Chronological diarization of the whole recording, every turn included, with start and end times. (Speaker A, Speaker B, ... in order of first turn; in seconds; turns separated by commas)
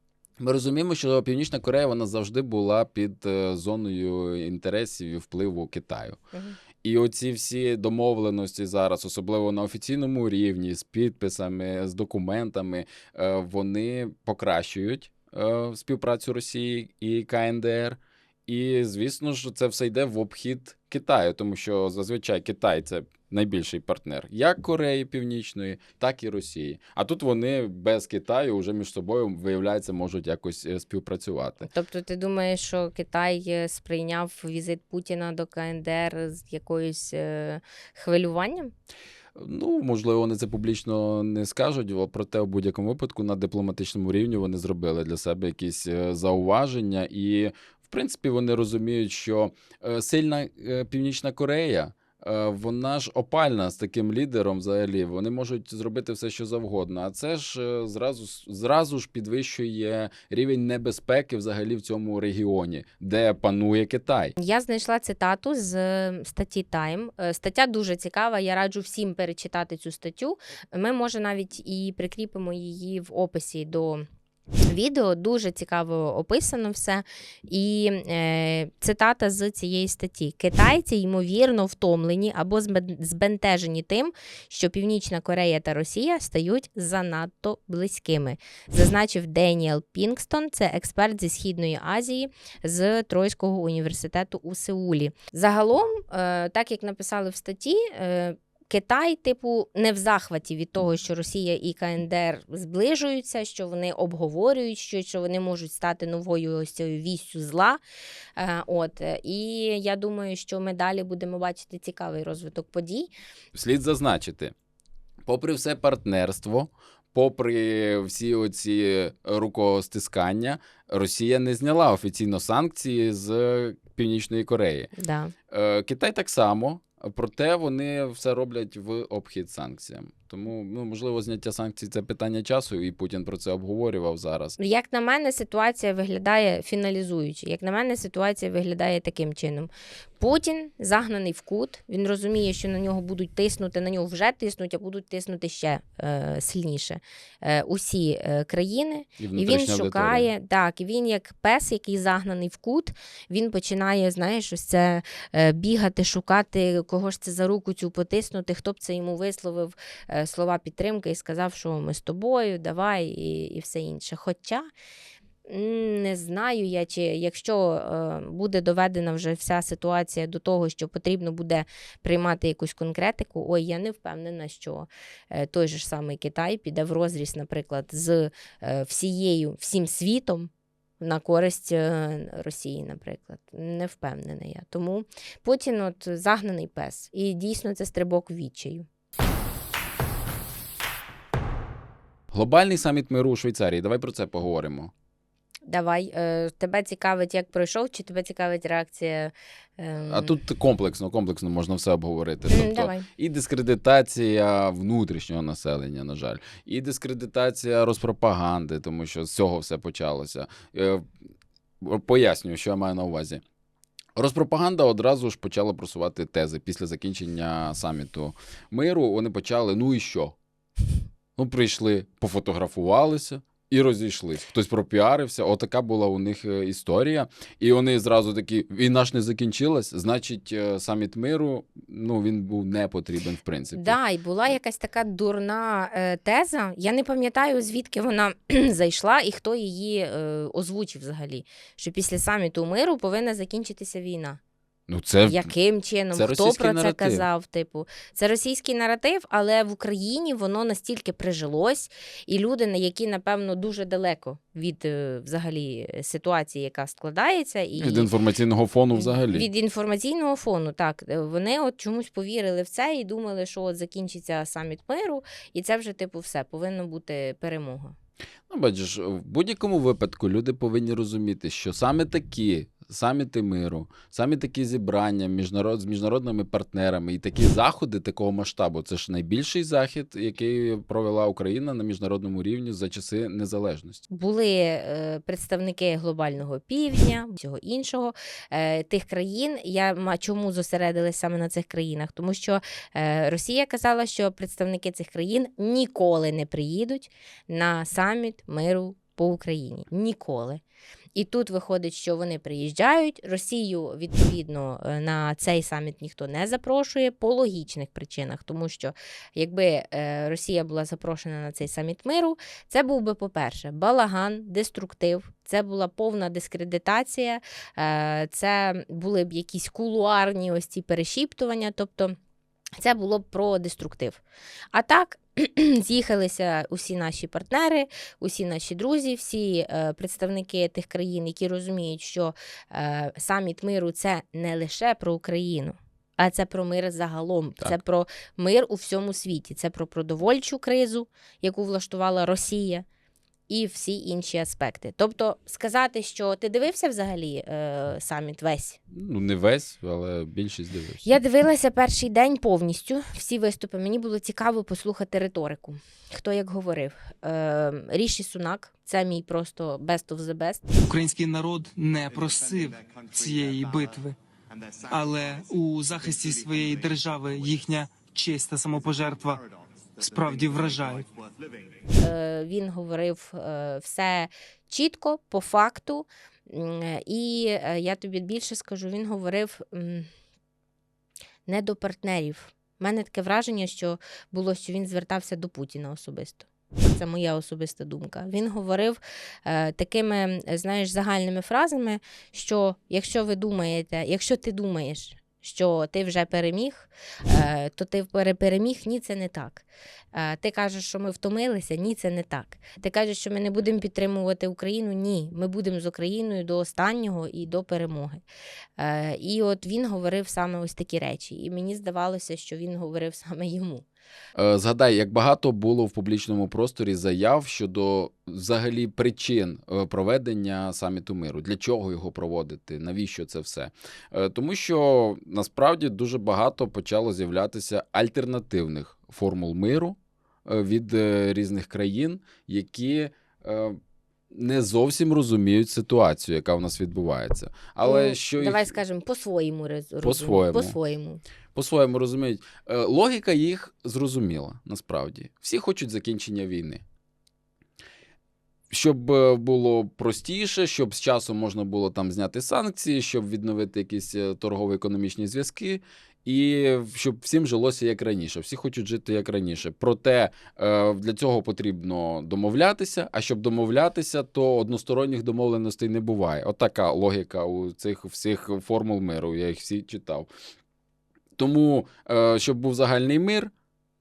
Speaker A: 0.4-6.2, Speaker A: 6.8-31.7, Speaker B: 31.6-38.7, Speaker A: 39.4-64.3, Speaker B: 64.4-74.0, Speaker B: 74.7-107.8, Speaker B: 108.4-113.1, Speaker A: 113.5-114.5, Speaker A: 115.2-124.9, Speaker B: 125.0-125.3, Speaker A: 125.5-134.6, Speaker B: 134.6-164.7, Speaker A: 149.2-150.3, Speaker B: 165.4-188.9, Speaker A: 192.3-194.9, Speaker B: 195.7-200.4, Speaker A: 200.1-211.1, Speaker B: 202.5-203.1, Speaker A: 211.8-213.4, Speaker A: 214.2-220.3, Speaker A: 221.3-234.0, Speaker B: 233.7-244.4, Speaker A: 244.9-245.5, Speaker B: 245.3-258.1, Speaker A: 246.1-247.2, Speaker A: 257.8-259.5, Speaker B: 258.9-267.9, Speaker A: 268.5-284.0, Speaker B: 284.1-300.6, Speaker B: 301.1-322.1, Speaker B: 322.8-324.2, Speaker B: 324.7-342.9, Speaker B: 343.5-348.8, Speaker A: 348.9-351.0, Speaker B: 351.0-360.7, Speaker C: 360.9-364.1, Speaker C: 364.9-369.4, Speaker C: 370.0-371.1, Speaker B: 371.9-380.1, Speaker B: 381.5-408.2, Speaker B: 408.8-413.8, Speaker A: 414.4-433.8, Speaker A: 434.3-438.7, Speaker B: 437.8-441.2, Speaker A: 440.0-440.8, Speaker A: 441.5-446.8, Speaker A: 448.7-470.3, Speaker A: 471.4-473.5